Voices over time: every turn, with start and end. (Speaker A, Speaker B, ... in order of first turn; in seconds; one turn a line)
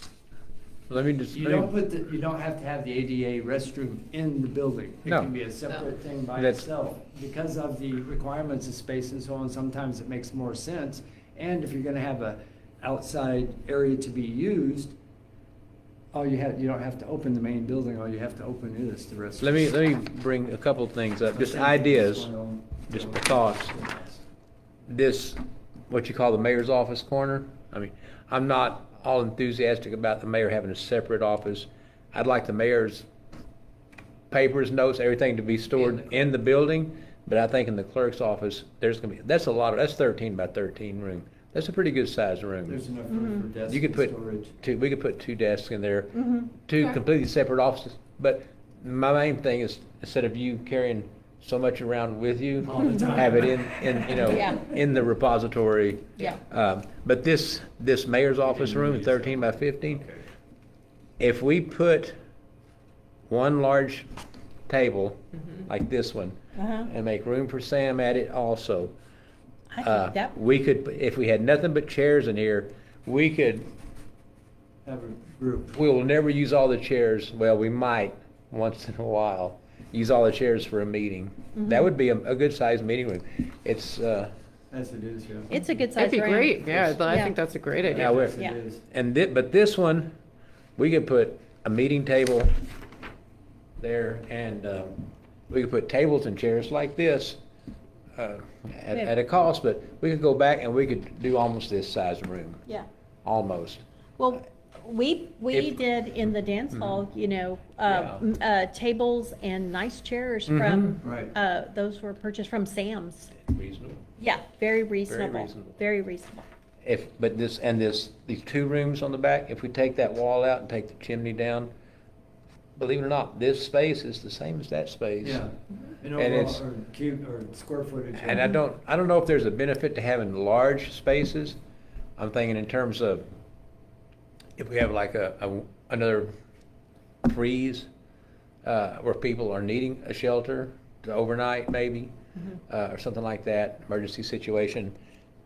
Speaker A: 0.9-1.7
Speaker B: 1.3-14.9
Speaker A: 6.4-6.7
Speaker B: 16.1-19.5
Speaker A: 19.4-22.3
Speaker B: 21.3-24.2
Speaker A: 22.9-23.7
Speaker A: 24.9-33.1
Speaker A: 34.3-42.8
Speaker B: 35.8-36.1
Speaker B: 42.7-44.5
Speaker C: 43.1-43.4
Speaker A: 43.7-60.0
Speaker C: 46.2-46.5
Speaker B: 52.6-54.6
Speaker C: 54.3-54.7
Speaker B: 58.4-60.2
Speaker A: 61.2-62.2
Speaker A: 63.3-64.1
Speaker A: 64.7-68.9
Speaker C: 66.6-66.9
Speaker C: 69.7-70.3
Speaker A: 69.8-73.7
Speaker B: 74.8-75.8
Speaker A: 75.7-84.3
Speaker C: 81.6-81.9
Speaker B: 84.7-85.5
Speaker C: 85.5-87.4
Speaker D: 86.0-88.2
Speaker B: 86.7-87.2
Speaker B: 87.8-88.8
Speaker A: 88.0-88.4
Speaker A: 88.9-90.2
Speaker A: 90.8-92.5
Speaker A: 93.8-97.4
Speaker A: 98.2-102.6
Speaker A: 103.2-103.8
Speaker C: 104.2-113.3
Speaker A: 105.5-105.8
Speaker A: 106.7-107.0
Speaker A: 107.9-108.2
Speaker A: 110.5-111.0
Speaker B: 111.0-111.3
Speaker A: 113.5-114.0
Speaker C: 114.2-116.4
Speaker A: 115.1-115.8
Speaker A: 116.8-121.7
Speaker A: 122.8-125.5
Speaker B: 125.2-128.5
Speaker A: 126.2-126.6
Speaker A: 128.2-131.6
Speaker A: 132.2-133.2
Speaker A: 134.6-136.3
Speaker A: 137.2-137.9
Speaker A: 138.6-144.9